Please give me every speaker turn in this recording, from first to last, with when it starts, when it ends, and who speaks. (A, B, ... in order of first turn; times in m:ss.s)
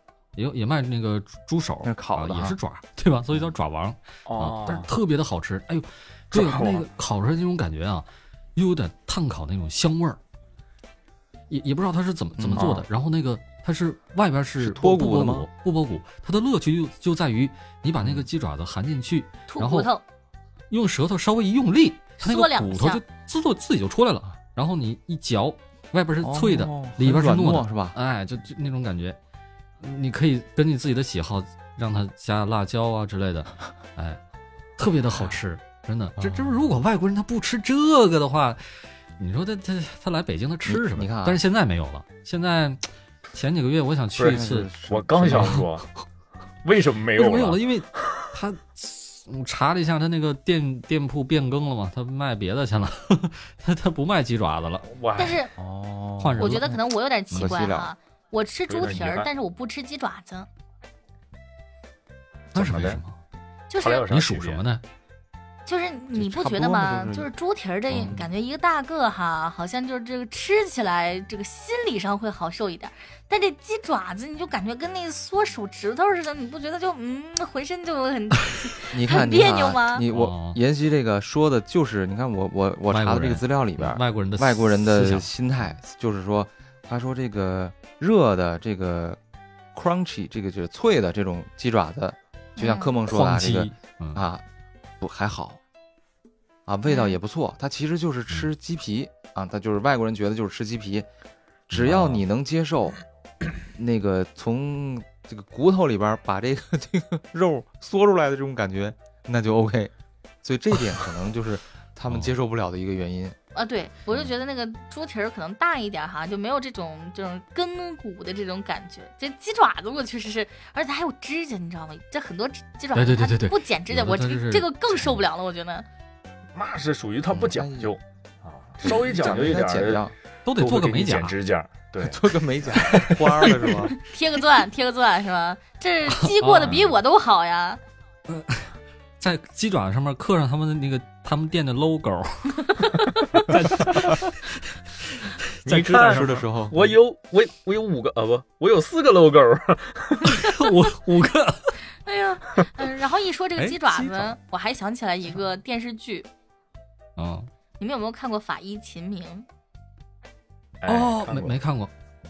0:00.4-0:10.2 A
0:01.8-0:02.6 B
0:04.3-0:04.9 C
0:06.3-0:06.8 C
0:11.5-0:19.9 A
0:12.4-0:12.8 B
0:12.6-0:12.8 C
0:14.6-0:15.5 B
0:18.0-0:18.3 B
0:19.5-0:20.0 D
0:20.7-0:29.2 A
0:22.2-0:23.0 D
0:26.2-0:28.0 B
0:29.8-0:34.2 A
0:34.8-0:44.7 A
0:36.2-0:36.6 B
0:40.6-0:41.4 B
0:44.2-0:45.9 C
0:44.2-0:45.6 B
0:45.3-0:45.7 A
0:46.6-0:47.6 C
0:47.2-0:54.9 A
0:54.8-0:55.4 C
0:55.2-0:55.5 D
0:55.6-0:56.8 B
0:56.2-0:56.8 A
0:56.4-1:00.5 D
0:57.3-0:57.9 B
0:58.7-0:59.3 C
1:02.5-1:03.0 C
1:02.5-1:03.2 A
1:03.7-1:04.1 D
1:03.8-1:04.6 C
1:04.1-1:04.8 A
1:05.6-1:20.0 D
1:06.1-1:07.3 B
1:07.9-1:08.3 B
1:18.9-1:29.2 B
1:20.1-1:20.6 A
1:22.9-1:25.3 A
1:29.7-1:34.4 B
1:32.6-1:32.9 D
1:33.1-1:34.2 A
1:35.0-1:35.6 B
1:36.7-1:41.1 B
1:36.9-1:37.2 D
1:41.7-1:43.0 B
1:41.7-1:42.2 A
1:43.6-1:53.4 B
1:53.5-2:05.8 D
2:02.9-2:05.2 A
2:06.5-2:10.0 C
2:07.3-2:07.9 B
2:08.8-2:10.1 B
2:10.4-2:11.4 A
2:10.6-2:13.9 C
2:12.0-2:14.0 B
2:14.0-2:17.8 D
2:16.1-2:16.8 A
2:16.4-2:16.9 C
2:18.3-2:22.7 A
2:23.4-2:24.6 A
2:25.2-2:26.3 A
2:25.6-2:30.4 C
2:25.9-2:26.9 B
2:30.2-2:31.8 A
2:32.0-2:36.3 D
2:33.6-2:34.3 A
2:37.2-2:37.5 A
2:37.8-2:39.4 D
2:40.8-2:41.6 C
2:40.9-2:41.9 A